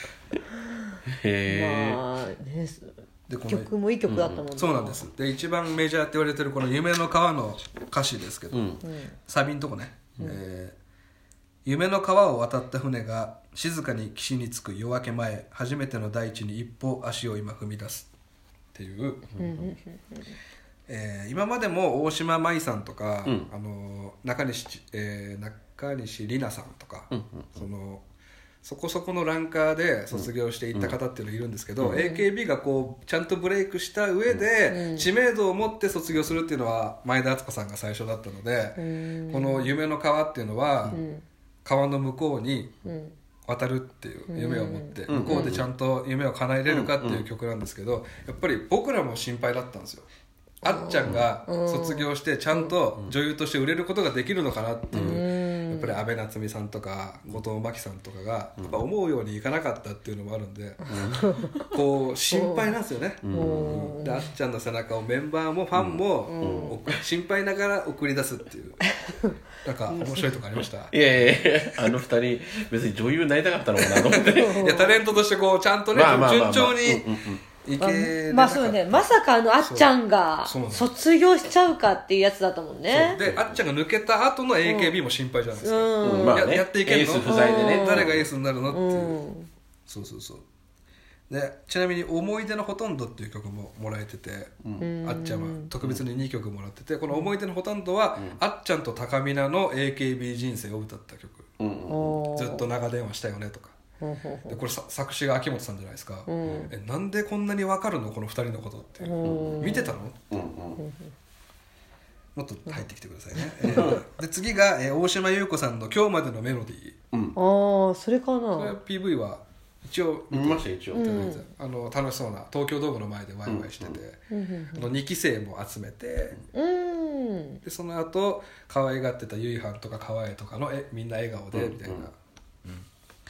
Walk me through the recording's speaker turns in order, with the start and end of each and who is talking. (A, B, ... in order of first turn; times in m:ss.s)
0:01.1-0:02.0 A
0:01.5-0:02.9 B
0:03.3-0:03.7 C
0:03.4-0:05.0 B
0:04.1-0:04.4 A
0:04.5-0:08.6 C
0:08.5-0:08.8 A
0:08.8-0:09.1 B
0:09.3-0:10.8 C
0:11.6-0:18.1 C
0:18.7-0:19.3 C
0:19.3-0:19.7 A
0:19.4-0:20.3 B
0:20.9-0:28.0 C
0:27.1-0:27.5 A
0:28.6-0:41.0 C
0:30.1-0:31.0 A
0:31.9-0:32.2 B
0:34.7-0:35.1 B
0:38.8-0:39.7 B
0:40.9-0:41.2 B
0:41.6-0:42.7 C
0:42.8-0:43.1 B
0:43.4-0:50.1 C
0:44.3-0:45.6 B
0:45.1-0:45.6 A
0:46.7-0:47.2 A
0:50.6-1:00.9 C
0:50.6-0:52.7 B
0:54.9-0:55.2 A
0:54.9-0:56.0 B
0:58.6-0:58.8 A
1:00.9-1:01.7 A
1:00.9-1:01.6 B
1:01.7-1:08.9 C
1:02.3-1:02.7 B
1:03.2-1:03.9 A
1:03.3-1:04.3 B
1:05.7-1:07.0 A
1:06.3-1:06.8 B
1:08.9-1:09.3 B
1:09.6-1:10.9 C
1:09.9-1:10.2 B
1:10.9-1:14.8 A
1:13.9-1:17.0 C
1:14.1-1:15.0 B
1:15.9-1:17.4 A
1:17.6-1:19.1 C
1:17.8-1:23.2 B
1:19.6-1:19.9 C
1:20.4-1:20.9 C
1:22.9-1:29.2 C
1:23.2-1:23.6 A
1:24.6-1:24.9 B
1:25.5-1:26.4 B
1:26.0-1:28.2 A
1:27.2-1:28.1 B
1:28.7-1:29.5 B
1:29.9-1:30.4 C
1:31.3-1:34.5 C
1:34.8-1:35.7 B
1:35.0-1:41.5 C
1:41.6-1:42.2 A
1:41.9-1:42.6 B
1:42.3-1:43.7 C
1:44.0-1:44.6 B
1:44.5-1:50.2 C
1:46.3-1:46.7 B
1:49.0-1:50.0 B
1:49.2-1:49.7 A
1:50.3-1:50.8 A
1:50.8-1:51.1 B
1:52.4-1:57.0 C
1:53.6-1:54.0 A
1:57.4-1:58.8 B
1:58.5-2:04.2 C
2:00.3-2:01.2 A
2:00.9-2:01.4 B
2:03.5-2:04.0 A
2:04.3-2:04.9 B
2:04.7-2:06.4 C
2:06.5-2:07.6 B
2:07.6-2:12.8 C
2:11.5-2:12.0 A